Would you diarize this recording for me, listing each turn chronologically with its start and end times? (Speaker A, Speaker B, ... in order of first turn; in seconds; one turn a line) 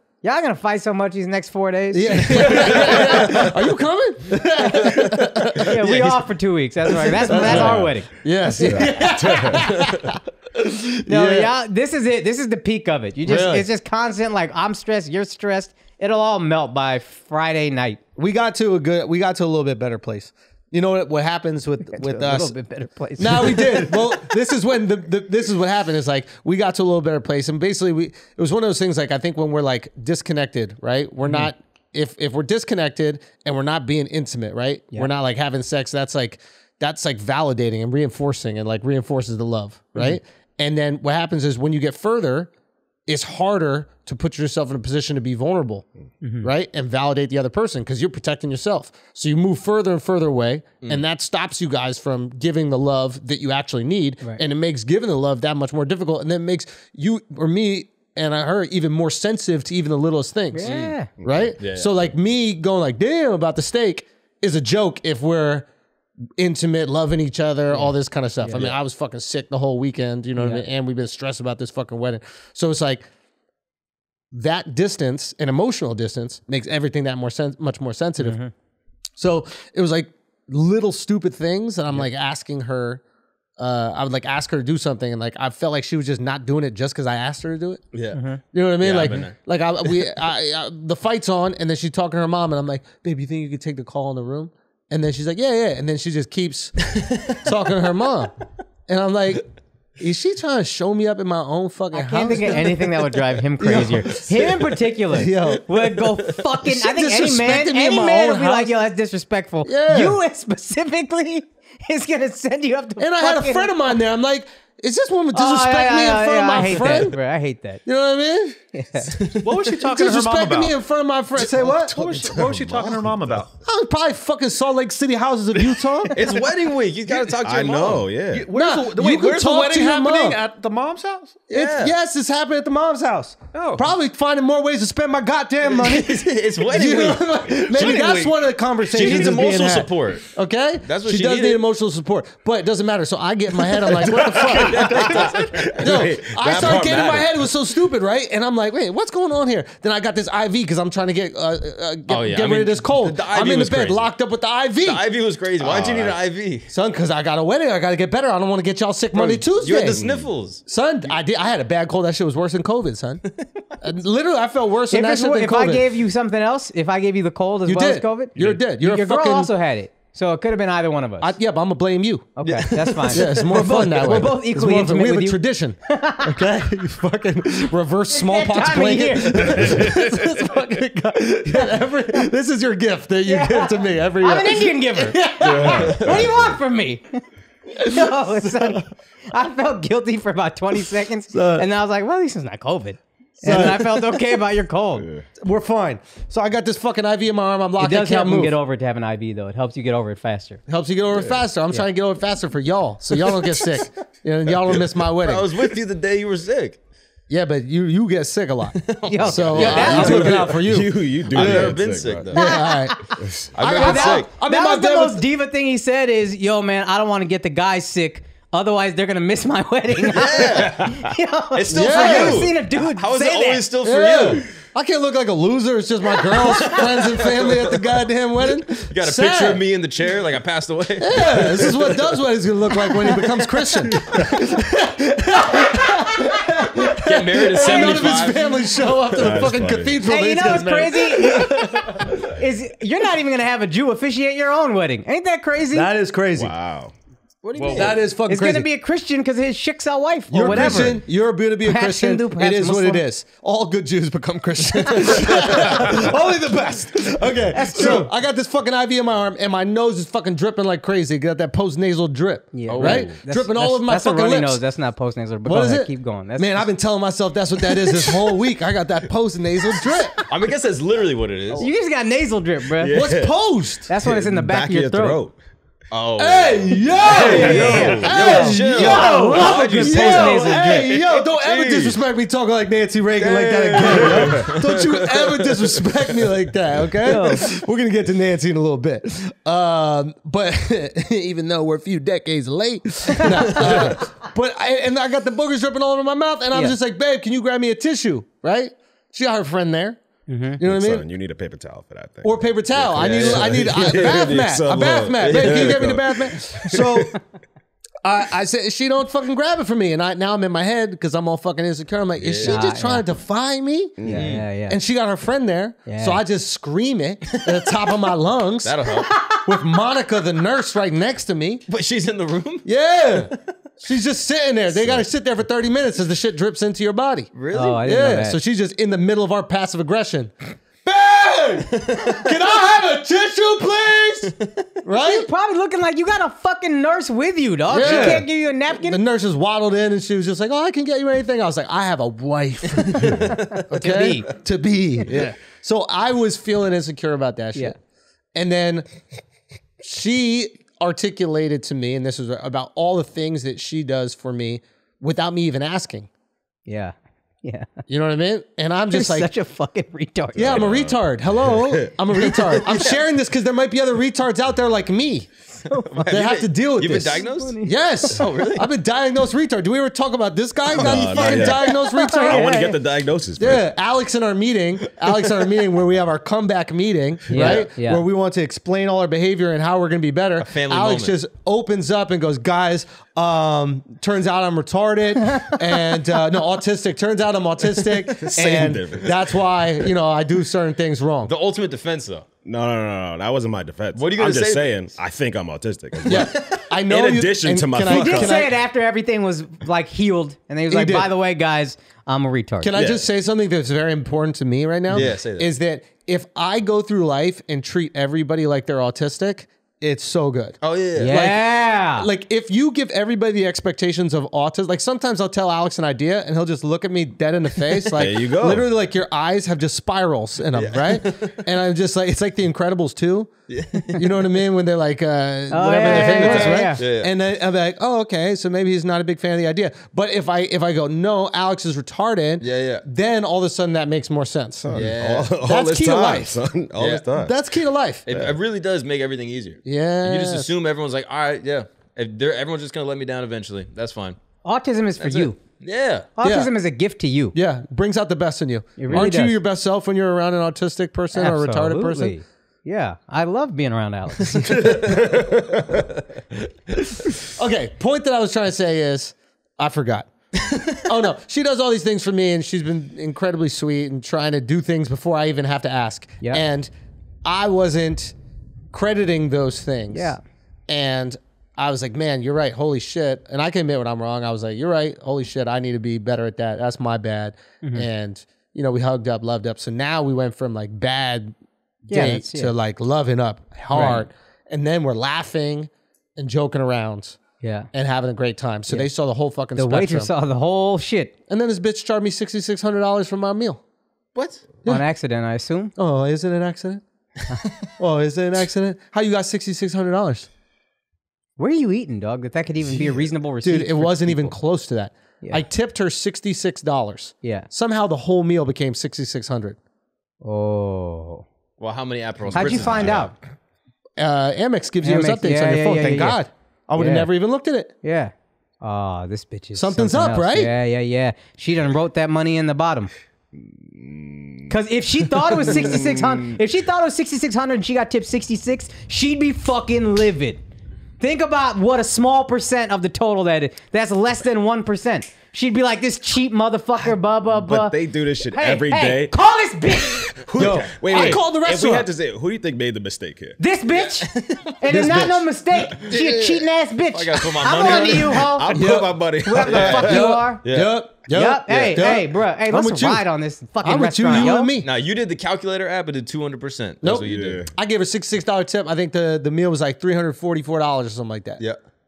Speaker A: 0.2-3.0
Speaker B: 1.9-5.8
Speaker C: 2.3-3.4
Speaker C: 4.8-6.2
Speaker A: 5.6-8.1
Speaker C: 6.9-7.7
Speaker B: 7.3-11.5
Speaker D: 7.5-7.9
Speaker D: 8.5-10.0
Speaker A: 11.1-18.0
Speaker B: 13.2-13.7
Speaker B: 18.1-22.5
Speaker A: 21.9-23.9
Speaker B: 23.2-42.5
Speaker B: 43.1-45.9
Speaker A: 46.2-46.5
Speaker B: 46.4-65.7
Speaker A: 60.5-61.1
Speaker C: 60.6-60.9
Speaker D: 61.2-61.5
Speaker C: 61.6-61.9
Speaker B: 66.4-73.0
Speaker A: 70.4-70.7
Speaker B: 74.3-78.4
Speaker A: 78.2-78.5
Speaker B: 79.2-83.0
Speaker B: 83.6-87.8
Speaker C: 87.9-88.2
Speaker A: 88.1-88.4
Speaker B: 88.5-98.3
Speaker C: 88.8-89.3
Speaker C: 96.9-97.5
Speaker B: 98.9-102.7
Speaker A: 101.9-114.0
Speaker B: 103.6-105.6
Speaker B: 106.6-108.7
Speaker B: 109.6-110.2
Speaker B: 113.0-117.2
Speaker A: 115.3-117.8
Speaker B: 117.8-118.6
Speaker A: 118.7-119.2
Speaker C: 119.2-119.7
Speaker E: 119.4-120.7
Speaker B: 119.8-122.0
Speaker E: 121.5-123.5
Speaker D: 121.6-123.5
Speaker B: 123.6-126.3
Speaker E: 125.7-126.3
Speaker C: 126.1-128.1
Speaker D: 127.4-128.5
Speaker E: 128.3-131.4
Speaker B: 128.5-130.4
Speaker B: 131.5-155.0
Speaker C: 131.5-131.9
Speaker C: 135.7-138.4
Speaker C: 138.9-140.3
Speaker C: 140.8-141.6
Speaker C: 144.1-147.3
Speaker D: 144.2-147.3
Speaker C: 152.1-154.1
Speaker C: 154.8-156.7
Speaker D: 155.6-156.2
Speaker B: 156.7-160.0
Speaker C: 159.1-161.1
Speaker D: 159.8-160.3
Speaker B: 160.7-163.2
Speaker C: 163.3-163.7
Speaker B: 163.8-165.9
Speaker A: 164.9-171.3
Speaker B: 167.6-169.5
Speaker B: 171.2-172.3
Speaker A: 172.3-176.3
Speaker C: 172.4-174.2
Speaker B: 173.1-186.1
Speaker A: 178.1-179.6
Speaker E: 179.6-180.3
Speaker A: 183.2-187.2
Speaker D: 185.4-186.6
Speaker B: 187.7-188.8
Speaker A: 187.8-195.1
Speaker B: 191.3-191.7
Speaker B: 193.4-194.0
Speaker D: 195.0-195.2
Speaker B: 195.4-198.6
Speaker A: 197.8-200.6
Speaker B: 200.7-205.5
Speaker D: 201.1-201.4
Speaker D: 203.2-203.8
Speaker C: 205.2-206.8
Speaker B: 207.3-213.0
Speaker C: 208.8-210.6
Speaker A: 209.1-210.3
Speaker D: 209.6-212.3
Speaker C: 211.3-212.4
Speaker A: 212.4-212.7
Speaker C: 213.5-214.3
Speaker B: 213.6-215.2
Speaker A: 213.7-223.6
Speaker C: 220.0-224.5
Speaker B: 221.7-222.5
Speaker B: 223.8-229.6
Speaker C: 226.3-227.8
Speaker C: 228.6-232.1
Speaker B: 231.0-242.1
Speaker C: 237.0-238.7
Speaker D: 239.0-240.0
Speaker A: 240.0-245.9
Speaker B: 245.7-246.5
Speaker D: 246.3-246.9
Speaker C: 247.4-248.0
Speaker E: 247.6-247.9
Speaker B: 247.7-248.7
Speaker A: 248.3-251.0
Speaker B: 250.3-264.6
Speaker A: 251.6-253.0
Speaker A: 257.5-258.1
Speaker A: 262.5-266.6
Speaker C: 262.7-263.2
Speaker B: 265.4-270.2
Speaker C: 270.2-271.7
Speaker A: 271.6-273.1
Speaker D: 272.8-273.4
Speaker B: 272.9-273.9
Speaker D: 273.9-275.4
Speaker A: 273.9-275.2
Speaker C: 275.9-282.0
Speaker B: 276.2-300.0
Speaker D: 277.0-278.5
Speaker A: 277.2-280.9
Speaker C: 283.1-286.3
Speaker D: 283.8-284.6
Speaker A: 287.0-287.5
Speaker A: 300.3-300.6
Speaker B: 300.6-301.1
Speaker D: 300.6-307.1
Speaker B: 302.2-307.2
Speaker C: 303.0-304.3
Speaker C: 305.2-305.9
Speaker B: 308.0-314.1
Speaker C: 312.2-312.6
Speaker A: 312.5-313.1
Speaker D: 314.0-314.4
Speaker A: 314.0-314.8
Speaker C: 314.1-314.4
Speaker B: 314.7-318.8
Speaker A: 315.9-316.2
Speaker C: 317.3-317.6
Speaker C: 318.6-319.1
Speaker B: 319.3-321.6
Speaker C: 321.7-323.3
Speaker B: 322.6-335.3
Speaker D: 324.8-325.1
Speaker C: 327.3-327.8
Speaker A: 327.5-328.4
Speaker C: 331.8-332.3
Speaker A: 335.0-339.0
Speaker B: 337.7-347.8
Speaker C: 337.8-338.1
Speaker C: 342.8-343.6
Speaker A: 343.7-344.3
Speaker B: 348.3-348.9
Speaker B: 349.8-356.1
Speaker A: 356.7-357.7
Speaker B: 357.9-359.3
Speaker A: 358.9-360.7
Speaker D: 360.4-361.9
Speaker B: 360.4-365.3
Speaker C: 362.3-363.0
Speaker A: 365.7-366.0
Speaker C: 365.8-368.7
Speaker B: 366.1-372.5
Speaker A: 367.3-367.7
Speaker C: 370.7-372.1
Speaker D: 370.8-373.7
Speaker A: 371.9-372.7
Speaker B: 373.4-391.3
Speaker A: 377.3-378.0
Speaker C: 380.4-381.2
Speaker D: 388.1-389.9
Speaker C: 391.2-392.3
Speaker D: 392.4-398.5
Speaker C: 393.9-394.8
Speaker C: 396.0-396.6
Speaker B: 396.1-398.5
Speaker A: 397.8-402.7
Speaker B: 400.7-401.1
Speaker B: 402.6-423.3
Speaker D: 402.7-403.1
Speaker C: 404.9-405.5
Speaker C: 410.6-411.1
Speaker A: 411.0-412.1
Speaker D: 417.9-418.7
Speaker C: 420.5-421.4
Speaker C: 423.5-424.3
Speaker B: 423.9-434.7
Speaker A: 425.5-426.8
Speaker C: 425.9-427.1
Speaker C: 432.4-432.8
Speaker D: 434.7-437.3
Speaker C: 434.7-435.4
Speaker B: 435.4-436.4
Speaker C: 436.8-437.1
Speaker B: 437.1-438.0
Speaker C: 438.1-444.2
Speaker D: 438.1-438.4
Speaker B: 439.6-440.5
Speaker A: 444.4-445.4
Speaker C: 445.0-446.1
Speaker A: 446.2-447.4
Speaker B: 446.2-446.5
Speaker B: 447.3-452.1
Speaker A: 448.8-449.4
Speaker A: 451.1-454.7
Speaker C: 454.5-455.0
Speaker D: 454.6-455.8
Speaker B: 457.3-460.1
Speaker C: 460.4-460.8
Speaker B: 460.7-466.7
Speaker B: 467.2-468.1
Speaker B: 468.7-470.1
Speaker A: 469.9-470.2
Speaker B: 470.7-481.3
Speaker A: 477.6-477.9
Speaker B: 481.9-487.2
Speaker A: 481.9-482.5
Speaker A: 483.7-484.0
Speaker A: 487.4-487.7
Speaker B: 487.7-490.1
Speaker A: 489.6-491.1
Speaker B: 491.3-493.6
Speaker C: 494.1-494.4
Speaker A: 494.6-495.7
Speaker B: 495.8-496.8
Speaker B: 497.8-500.3
Speaker A: 501.4-504.3
Speaker B: 503.4-509.6
Speaker A: 507.2-507.5
Speaker A: 510.2-511.2
Speaker C: 511.6-513.1
Speaker D: 512.3-513.0
Speaker A: 512.3-513.1
Speaker B: 514.0-517.7
Speaker A: 514.8-516.2
Speaker A: 516.8-517.1
Speaker A: 517.8-522.9
Speaker B: 519.5-520.5
Speaker D: 523.4-524.5
Speaker A: 524.5-530.4
Speaker D: 525.4-526.4
Speaker A: 531.0-540.1
Speaker D: 537.4-539.2
Speaker D: 539.8-543.4
Speaker B: 540.3-541.9
Speaker C: 540.4-541.2
Speaker A: 543.4-548.5
Speaker C: 544.1-544.5
Speaker B: 544.6-545.3
Speaker C: 546.9-548.3
Speaker D: 548.1-550.0
Speaker B: 548.5-553.0
Speaker A: 549.2-550.4
Speaker C: 549.4-550.8
Speaker A: 551.1-554.5
Speaker C: 551.5-551.8
Speaker B: 553.6-554.7
Speaker C: 554.1-557.4
Speaker B: 556.8-561.4
Speaker D: 557.0-557.5